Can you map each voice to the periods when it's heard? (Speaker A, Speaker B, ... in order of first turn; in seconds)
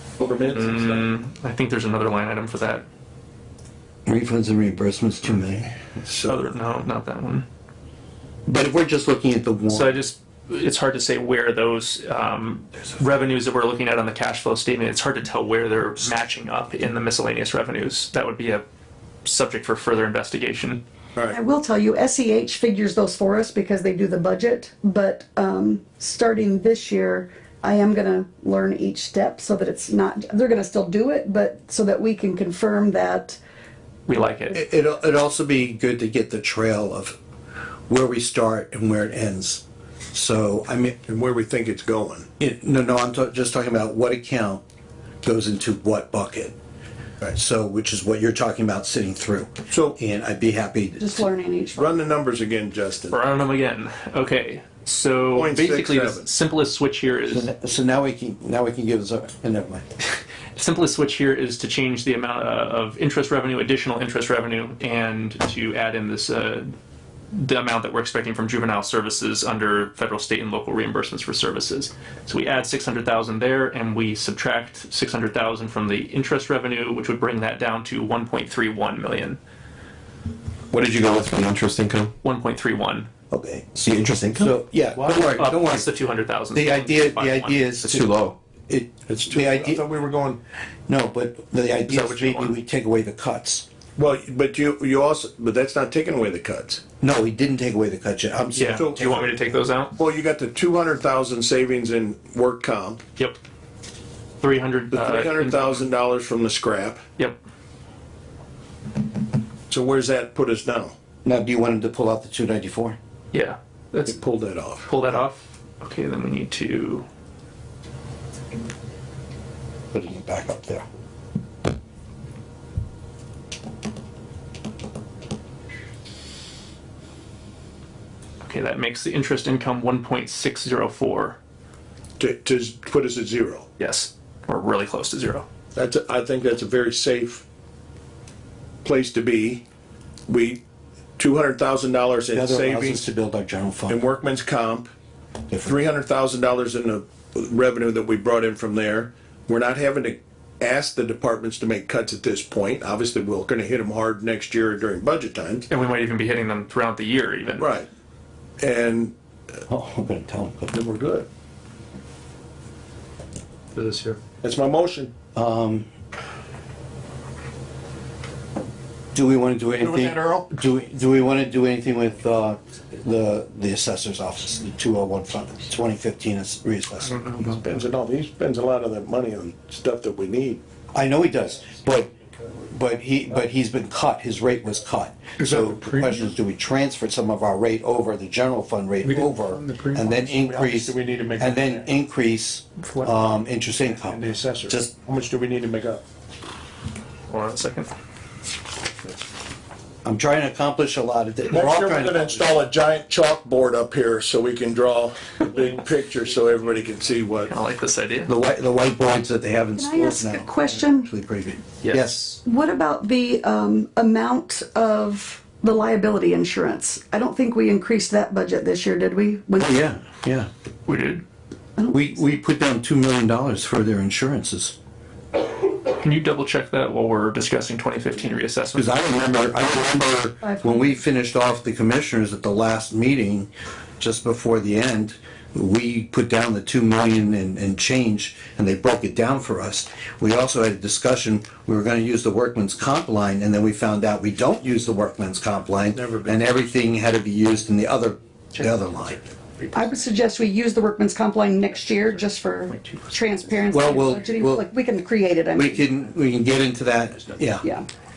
Speaker A: 0.2-1.1, 41.0-42.3, 49.7-50.0, 51.7-53.2, 55.3-56.3, 89.1-90.4, 94.0-96.8, 98.8-99.1, 100.0-103.0, 104.9-107.0, 109.7-110.9, 114.0-114.9, 132.2-133.7, 135.7-137.4, 138.8-139.6, 140.3-140.6, 141.2-143.1, 143.9-144.9, 145.6-155.7, 157.6-157.9, 158.6-159.1, 160.7-161.3, 164.4-165.1, 169.8-170.5, 177.4-180.6, 189.9-191.8, 194.1-196.0, 201.5-207.6, 246.0-246.3
Speaker B: 0.5-2.8, 6.2-7.5, 9.7-18.6, 19.2-20.8, 34.1-34.5, 53.1-57.5, 60.5-66.7, 67.3-79.4, 82.2-83.1, 85.1-87.8, 91.9-92.5, 98.5-99.9, 104.4-105.8, 113.3-114.2, 114.8-117.0, 128.4-131.4, 133.8-135.4, 155.7-157.7, 197.3-197.9, 207.4-208.3, 211.8-212.3, 220.9-221.2, 225.9-228.9
Speaker C: 4.0-5.7, 8.4-10.0, 34.5-37.1, 37.9-41.0, 42.4-44.6, 45.2-46.5, 47.2-51.2, 57.3-59.8, 83.3-83.8, 84.3-85.8, 86.5-88.1, 88.7-89.8, 90.9-93.6, 97.0-99.3, 111.2-113.0, 119.9-120.8, 142.3-144.0, 159.7-160.7, 165.3-165.9, 169.1-177.3, 180.9-182.1, 182.7-194.9, 200.0-202.5, 208.2-212.4, 219.6-220.5, 221.9-224.7, 228.7-233.5, 234.0-249.2, 253.7-254.6, 255.5-257.6
Speaker D: 21.3-33.4, 51.0-52.0, 209.8-211.1, 212.4-219.7, 230.4-230.8, 249.7-255.8
Speaker E: 80.7-82.1, 83.8-84.5, 87.8-88.3